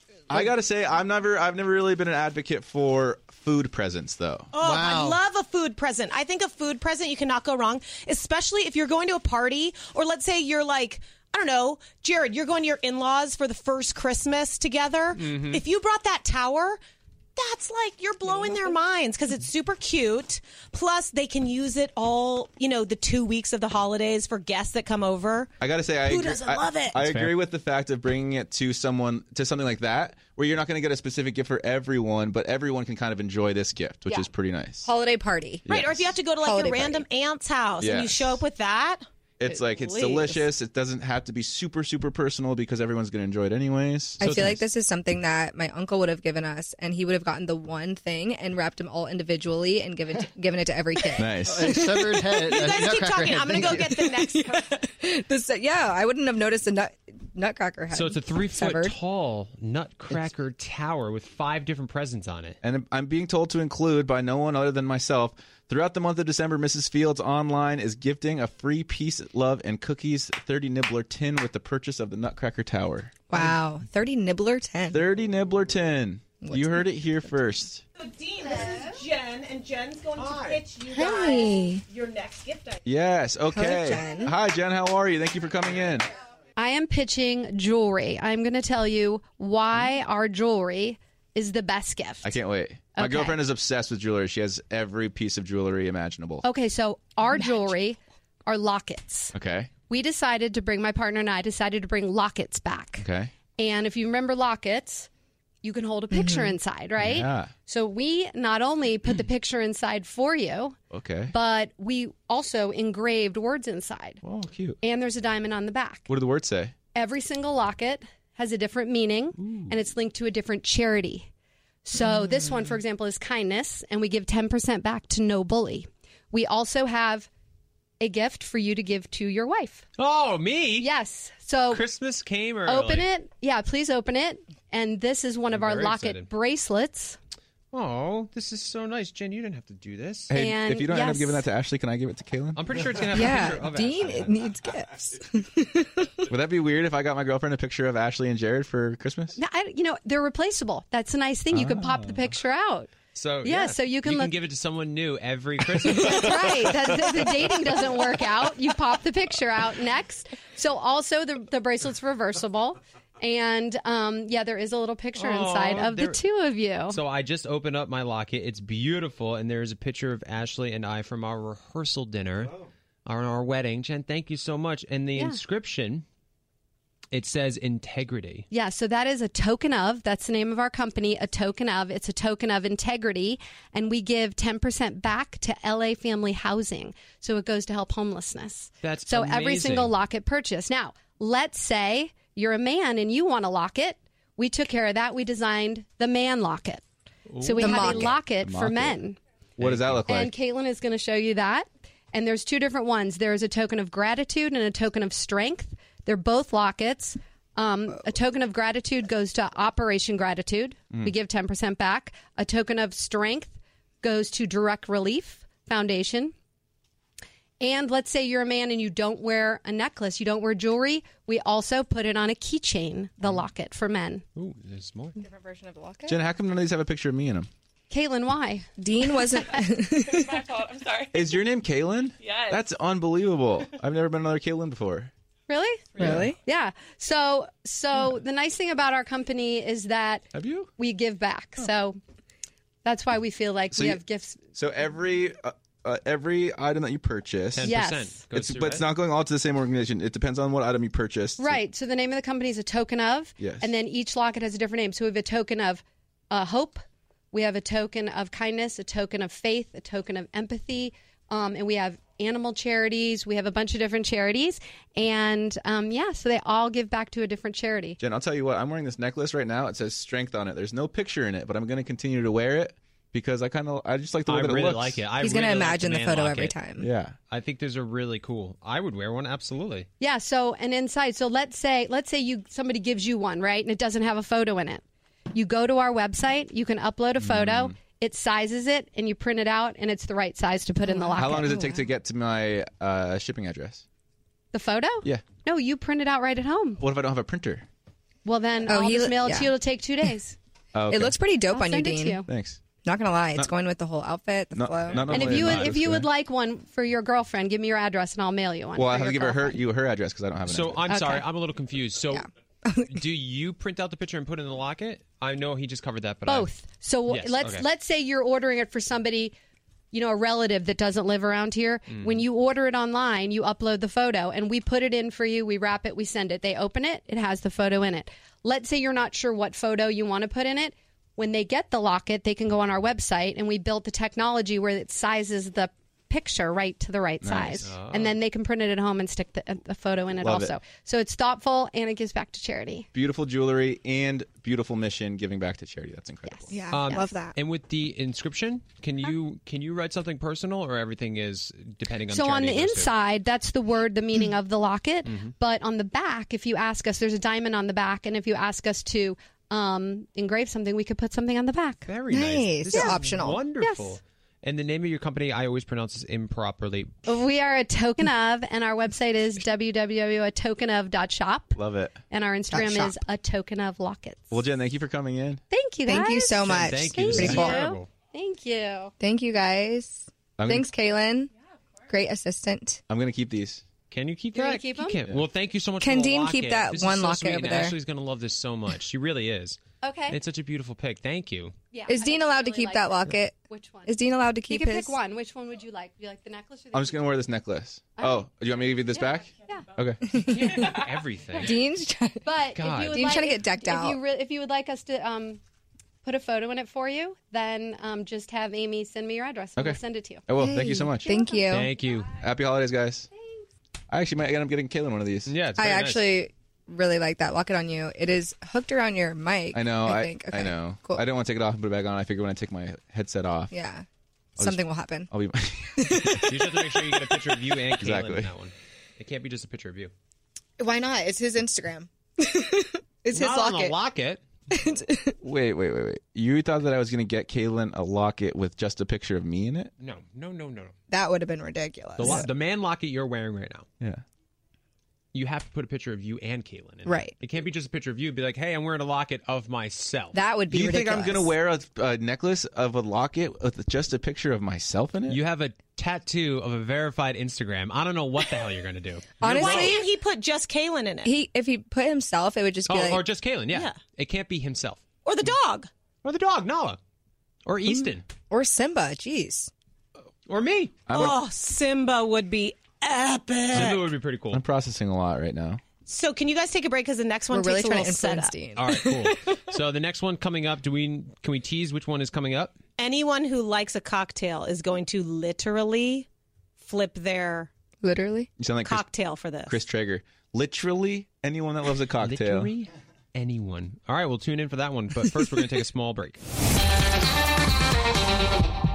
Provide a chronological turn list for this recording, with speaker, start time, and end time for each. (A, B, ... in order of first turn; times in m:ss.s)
0:00.3-0:04.5 A
0:04.5-0:16.8 B
0:04.6-0:05.2 C
0:15.2-0:15.6 D
0:17.4-0:25.5 B
0:25.6-0:34.9 A
0:27.0-0:27.4 D
0:34.8-0:35.7 E
0:35.7-0:39.1 B
0:35.7-0:36.1 A
0:36.4-0:37.0 E
0:37.8-0:38.4 A
0:39.4-0:44.2 A
0:39.8-0:40.4 E
0:44.2-0:52.3 E
0:44.2-0:44.6 D
0:51.2-0:51.7 A
0:51.5-0:54.0 C
0:52.4-0:54.8 B
0:53.6-0:58.9 E
0:57.9-1:02.6 D
1:02.6-1:13.2 A
1:13.3-1:15.1 E
1:14.9-1:17.8 A
1:16.4-1:17.0 E
1:18.0-1:22.8 B
1:20.2-1:20.6 D
1:20.9-1:21.8 E
1:22.8-1:26.1 A
1:23.5-1:24.3 E
1:26.6-1:32.4 F
1:32.2-1:36.4 A
1:33.0-1:33.4 F
1:36.4-1:39.3 F
1:39.3-1:39.7 A
1:39.9-1:43.0 F
1:43.0-1:43.3 A
1:43.6-1:45.1 F
1:45.6-1:50.8 F
1:46.1-1:46.6 E
1:47.0-1:47.5 A
1:50.9-1:51.3 A
1:51.3-1:54.2 F
1:54.2-1:54.8 A
1:54.8-1:56.1 F
1:56.1-1:56.7 A
1:56.9-2:01.3 F
2:01.8-2:07.3 F
2:08.0-2:09.8 F
2:10.0-2:10.9 D
2:10.8-2:11.9 F
2:11.7-2:13.1 D
2:12.6-2:17.2 F
2:15.5-2:16.3 D
2:17.7-2:20.3 D
2:20.3-2:22.8 A
2:20.3-2:21.4 F
2:22.6-2:24.3 D
2:23.1-2:26.2 E
2:26.3-2:29.4 A
2:29.4-2:34.4 F
2:31.5-2:32.3 A
2:33.2-2:36.8 D
2:35.9-2:47.0 F
2:45.2-2:46.2 D
2:46.9-2:56.0 D
2:55.2-2:55.4 F
2:57.1-2:58.4 D
2:58.5-3:16.8 F
3:08.8-3:09.9 D
3:17.3-3:18.1 D
3:17.4-3:19.2 F
3:17.6-3:18.2 E
3:18.4-3:19.0 A
3:19.6-3:20.1 D
3:19.6-3:20.3 A
3:20.1-3:36.3 F
3:37.6-3:44.2 F
3:44.4-3:45.2 D
3:45.2-3:46.2 E
3:46.1-3:47.5 A
3:47.9-3:48.7 F
3:48.8-3:50.4 E
3:51.1-3:55.1 A
3:55.5-4:00.2 F
3:56.0-3:56.4 E
4:00.3-4:00.7 A
4:00.8-4:02.0 F
4:02.8-4:04.4 F
4:03.7-4:04.0 A
4:04.6-4:07.8 A
4:07.6-4:08.8 D
4:07.6-4:08.2 F
4:08.3-4:11.6 A
4:11.4-4:28.0 F
4:13.4-4:13.7 A
4:28.0-4:35.0 A
4:34.3-4:36.6 D
4:35.2-4:36.9 E
4:36.8-4:37.2 A
4:37.3-4:39.9 D
4:40.0-4:51.7 F
4:47.2-4:47.8 A
4:50.9-4:51.8 E
4:51.2-4:53.8 A
4:54.5-4:56.8 F
4:56.8-4:57.7 A
4:58.2-5:00.4 F
4:58.7-4:59.5 E
5:00.7-5:01.2 A
5:00.9-5:02.2 E
5:01.5-5:02.3 F
5:02.3-5:02.6 A
5:02.8-5:05.4 E
5:04.5-5:06.1 A
5:04.9-5:05.7 D
5:05.1-5:09.6 F
5:08.8-5:10.9 A
5:10.5-5:12.3 D
5:10.9-5:11.3 F
5:12.1-5:12.9 E
5:12.8-5:17.7 D
5:16.3-5:19.4 F
5:19.9-5:42.9 F
5:21.9-5:22.2 D
5:37.2-5:37.7 A
5:37.6-5:38.2 D
5:40.2-5:40.6 A
5:42.9-5:46.5 A
5:46.3-5:47.0 F
5:46.5-5:47.4 E
5:46.7-5:52.9 D
5:52.1-6:01.8 F
5:55.1-5:55.3 D
6:01.9-6:06.9 D
6:02.1-6:03.4 E
6:02.7-6:03.0 F
6:03.6-6:04.0 F
6:07.1-6:11.6 F
6:11.6-6:12.0 A
6:12.1-6:14.4 F
6:12.5-6:13.0 E
6:14.3-6:15.4 A
6:15.5-6:18.9 F
6:15.9-6:17.6 E
6:16.4-6:17.9 D
6:19.0-6:21.3 E
6:20.4-6:20.7 A
6:21.9-6:22.8 E
6:22.9-6:23.6 A
6:23.9-6:31.5 D
6:24.3-6:25.0 F
6:25.8-6:27.8 E
6:29.8-6:30.2 F
6:31.7-6:34.0 F
6:31.9-6:35.0 E
6:34.5-6:37.1 F
6:36.7-6:40.0 A
6:38.0-6:38.3 F
6:38.9-6:39.7 F
6:40.1-6:40.7 E
6:40.3-6:41.6 D
6:41.4-6:42.3 E
6:42.2-6:45.4 F
6:42.6-6:43.2 D
6:42.9-6:44.0 E
6:46.0-6:50.2 F
6:49.6-6:51.1 A
6:50.4-6:51.7 E
6:51.0-6:51.6 F
6:51.5-6:52.1 D
6:52.2-6:53.1 A
6:53.2-6:53.4 F
6:53.9-6:55.3 A
6:55.3-6:56.0 D
6:55.6-7:01.0 E
6:59.5-7:03.5 A
7:03.5-7:03.8 E
7:04.4-7:06.3 A
7:04.4-7:05.1 E
7:05.8-7:06.2 E
7:06.3-7:09.9 D
7:07.6-7:08.3 A
7:10.6-7:13.8 E
7:13.1-7:14.2 D
7:14.5-7:15.2 E
7:15.2-7:19.7 A
7:19.8-7:20.8 D
7:20.9-7:22.3 E
7:22.0-7:23.7 D
7:25.1-7:30.2 D
7:26.9-7:27.1 E
7:30.1-7:31.3 E
7:30.5-7:35.2 A
7:35.1-7:39.8 D
7:39.2-7:39.9 E
7:39.3-7:41.1 B
7:41.0-7:43.0 E
7:42.7-7:44.8 D
7:43.5-7:43.8 B
7:45.0-7:45.7 B
7:46.0-7:46.8 D
7:47.5-7:48.0 D
7:48.3-7:49.5 E
7:50.3-7:50.8 D
7:50.9-7:51.2 A
7:50.9-7:53.9 B
7:53.5-7:54.4 D
7:54.3-7:55.6 A
7:55.9-7:58.3 B
7:57.3-7:59.4 E
7:58.6-8:02.6 D
8:02.8-8:06.1 B
8:06.6-8:07.5 B
8:07.8-8:08.3 E
8:08.4-8:08.9 A
8:08.6-8:09.6 B
8:09.5-8:12.5 A
8:12.0-8:16.2 D